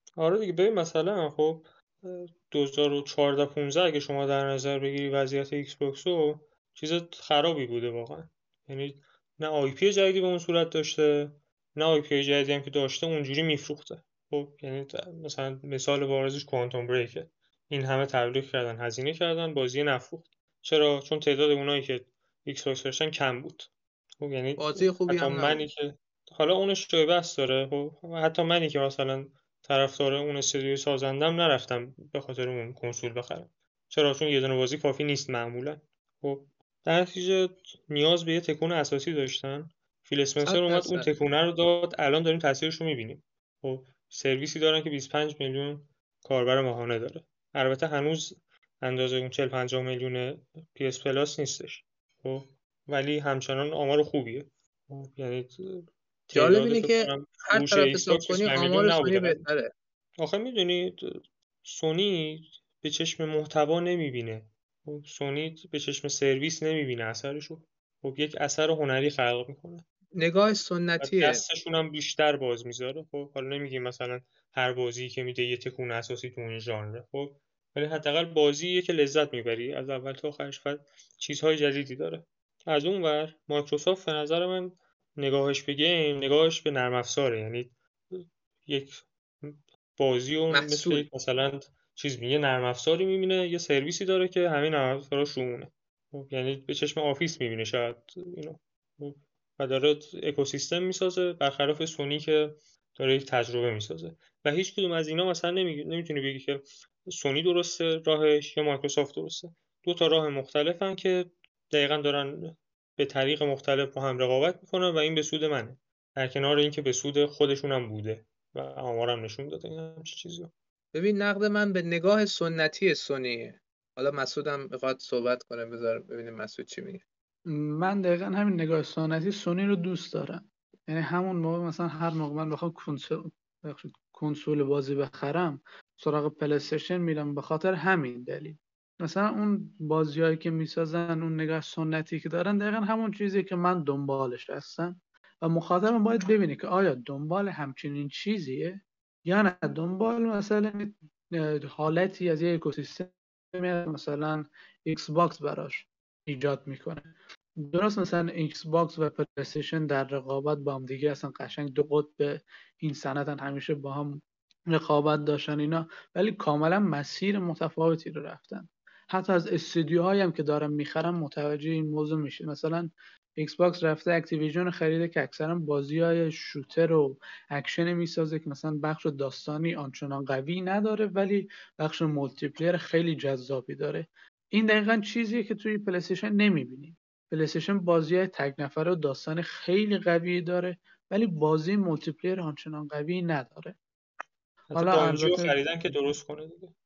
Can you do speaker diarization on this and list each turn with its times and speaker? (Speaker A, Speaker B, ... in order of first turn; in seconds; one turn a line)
Speaker A: 0.2-59.4
Speaker B: 24.6-25.6
Speaker B: 40.5-41.1
Speaker B: 56.3-59.7
Speaker A: 60.2-69.8
Speaker B: 70.2-71.4
Speaker A: 71.0-120.5
Speaker B: 90.5-91.1
Speaker B: 120.9-127.0
Speaker C: 127.5-193.8
Speaker C: 194.7-195.6
Speaker A: 194.7-196.7